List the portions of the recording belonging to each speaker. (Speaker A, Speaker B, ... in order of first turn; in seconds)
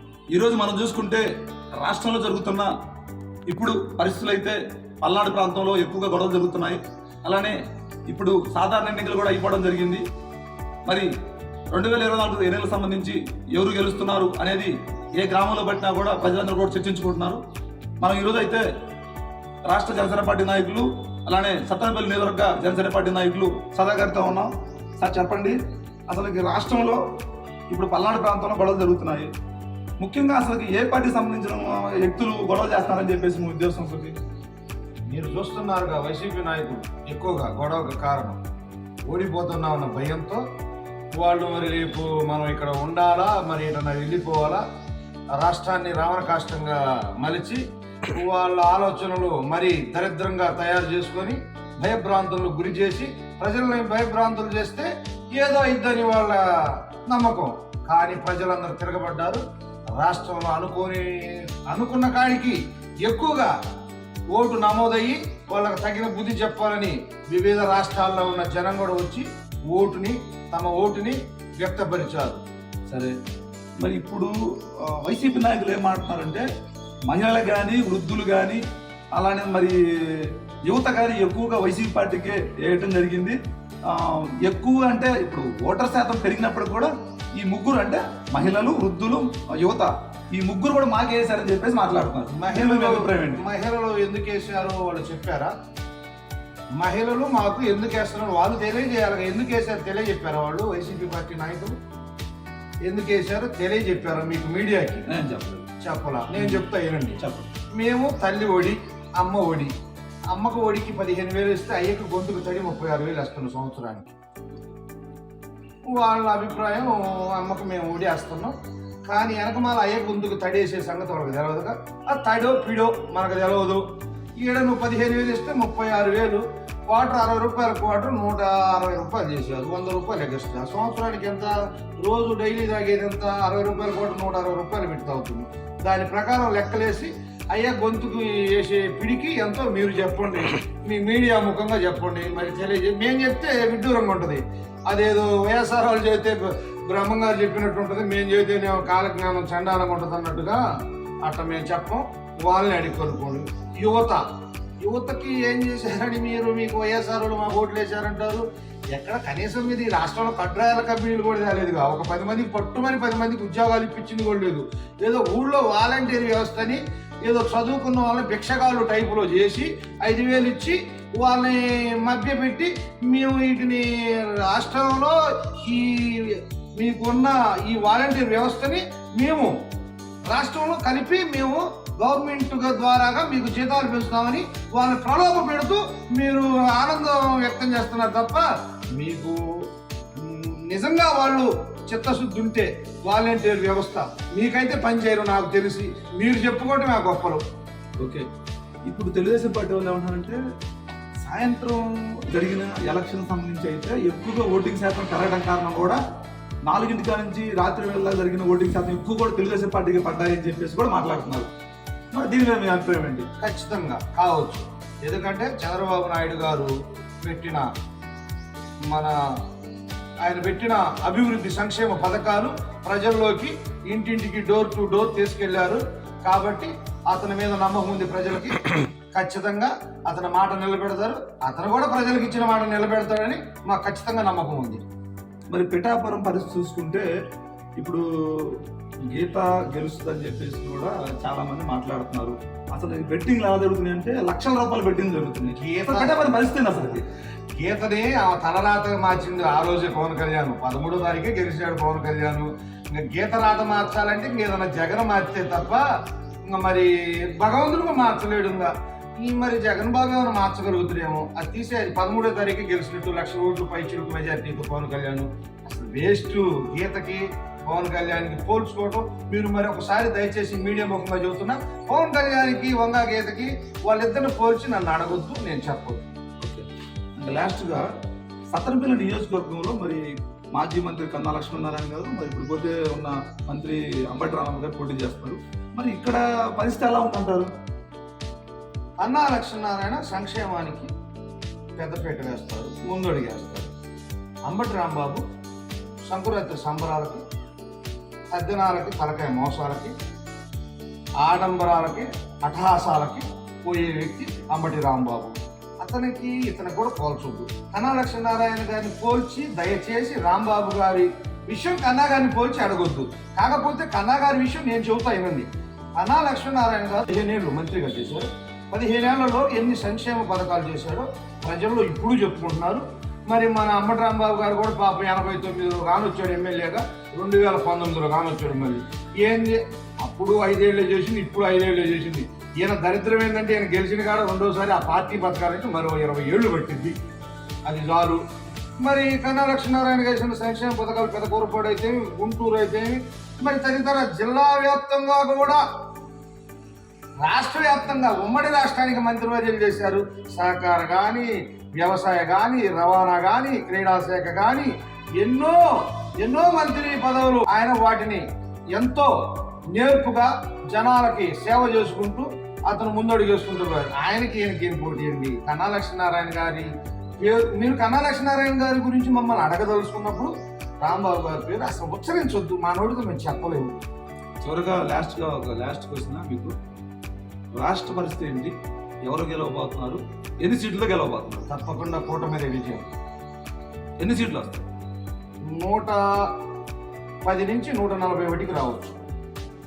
Speaker A: 0.3-1.2, 1.8-2.7, 3.5-7.6, 8.1-10.0, 11.7-17.4, 18.0-18.6, 19.7-25.6, 26.1-27.0, 27.7-29.3, 30.0-34.2, 72.9-73.2, 73.8-76.5, 77.1-78.6, 79.1-93.4, 105.1-105.7, 106.3-106.6, 107.2-107.5, 198.0-198.2, 198.8-200.4, 201.2-206.0, 206.7-211.5, 212.1-213.2, 235.5-237.1, 237.8-247.0, 277.2-277.9, 278.5-287.5, 374.4-376.5, 377.5-378.5, 379.0-381.5, 384.0-384.6
Speaker B: 35.1-38.4, 39.1-40.4, 41.1-44.6, 45.4-63.5, 64.3-72.4, 92.3-95.5, 96.8-101.8, 102.9-105.0, 105.8-107.2, 107.8-109.7, 110.3-114.1, 115.9-118.5, 119.1-123.8, 124.4-150.6, 151.2-154.2, 154.8-179.5, 180.3-189.4, 190.2-197.4, 213.4-216.7, 217.2-217.7, 218.8-219.2, 220.2-234.8, 245.5-247.0, 247.6-255.8, 256.4-276.1, 289.0-290.9, 291.8-293.7, 294.5-295.2, 296.1-297.2, 298.3-299.9, 301.2-315.5, 316.0-336.9, 337.6-338.2, 338.8-345.6, 347.2-373.8, 381.5-382.9, 385.5-386.0, 387.2-389.0